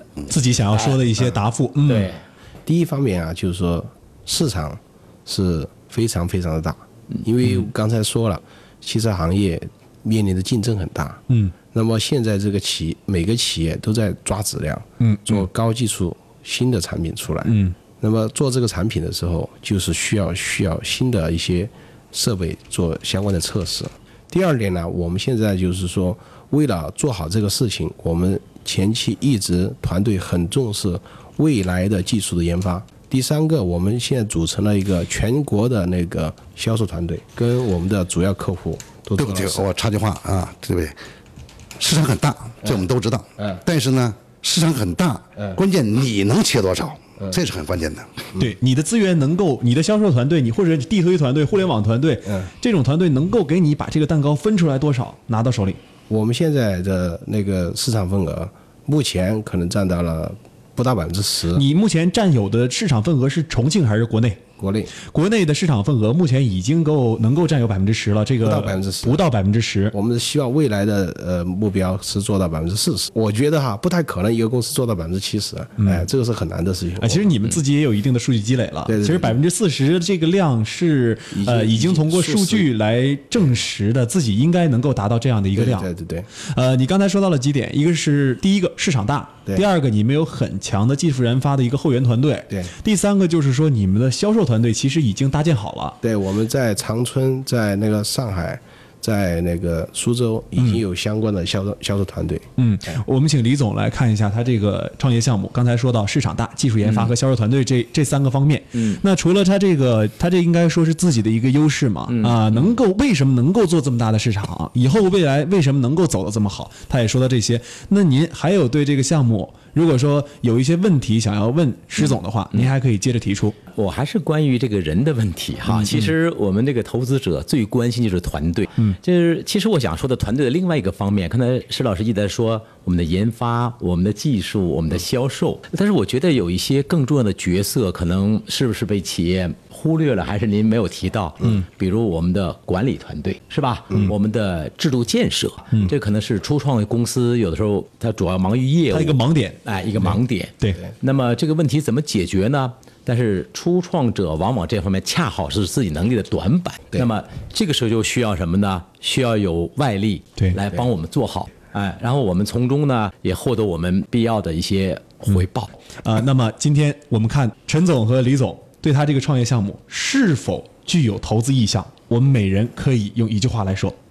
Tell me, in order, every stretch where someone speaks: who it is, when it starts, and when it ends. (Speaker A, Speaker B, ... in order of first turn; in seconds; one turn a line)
Speaker A: 0.3-2.1
Speaker B: 1.9-2.2
Speaker C: 2.6-39.7
Speaker A: 15.0-15.4
Speaker A: 17.4-17.7
Speaker D: 39.2-41.0
Speaker D: 41.8-48.2
Speaker A: 48.4-55.8
Speaker C: 56.1-61.6
Speaker A: 61.5-64.4
Speaker C: 64.6-64.9
Speaker A: 65.0-69.9
Speaker C: 68.4-69.2
Speaker C: 69.9-77.3
Speaker A: 77.0-96.0
Speaker C: 78.8-79.3
Speaker C: 81.3-82.7
Speaker C: 85.5-86.3
Speaker C: 96.0-102.5
Speaker A: 102.6-123.6
Speaker B: 106.8-107.1
Speaker B: 108.8-109.0
Speaker B: 112.1-112.7
Speaker B: 123.7-165.7
Speaker A: 125.7-126.1
Speaker A: 148.9-150.8
Speaker A: 166.0-173.9